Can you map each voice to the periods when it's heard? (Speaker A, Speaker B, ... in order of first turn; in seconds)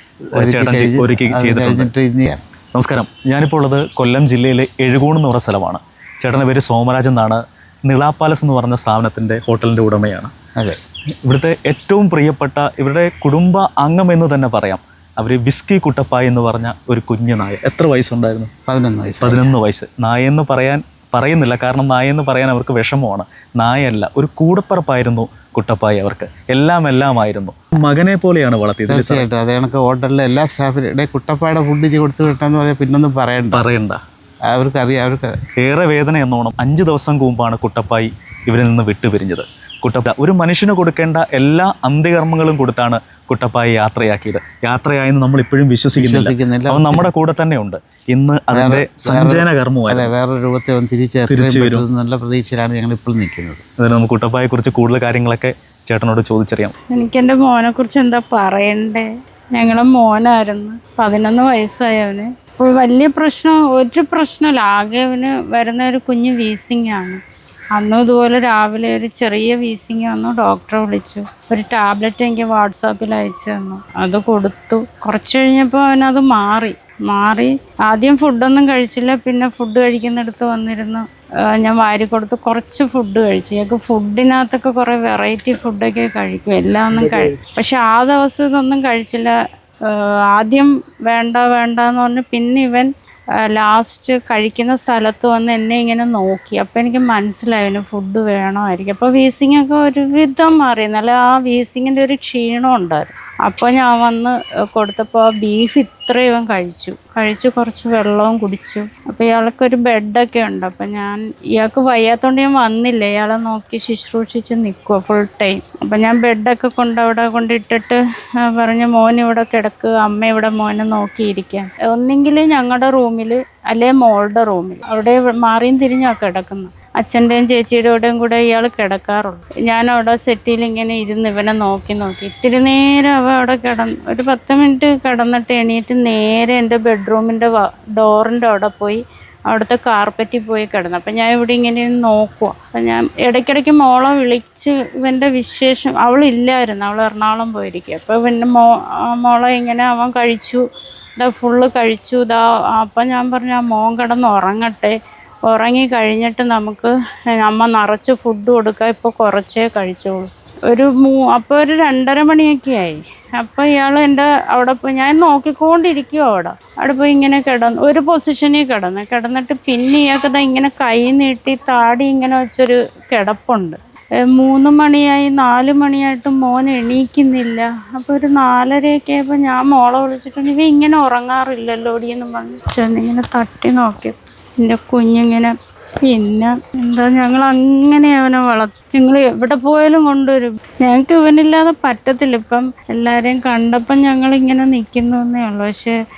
Speaker A: 0.3-1.9, 2.7-10.3, 11.2-18.5, 19.2-29.3, 33.5-34.0, 35.6-50.1, 51.3-51.8, 53.8-56.7
Speaker B: 0.3-2.4, 18.7-19.5, 28.9-33.6, 34.5-35.3, 46.0-47.1, 48.5-53.6
Speaker C: 56.9-67.2, 67.7-89.3, 89.9-92.9, 93.5-150.6, 151.2-154.9, 155.5-185.5, 186.1-196.0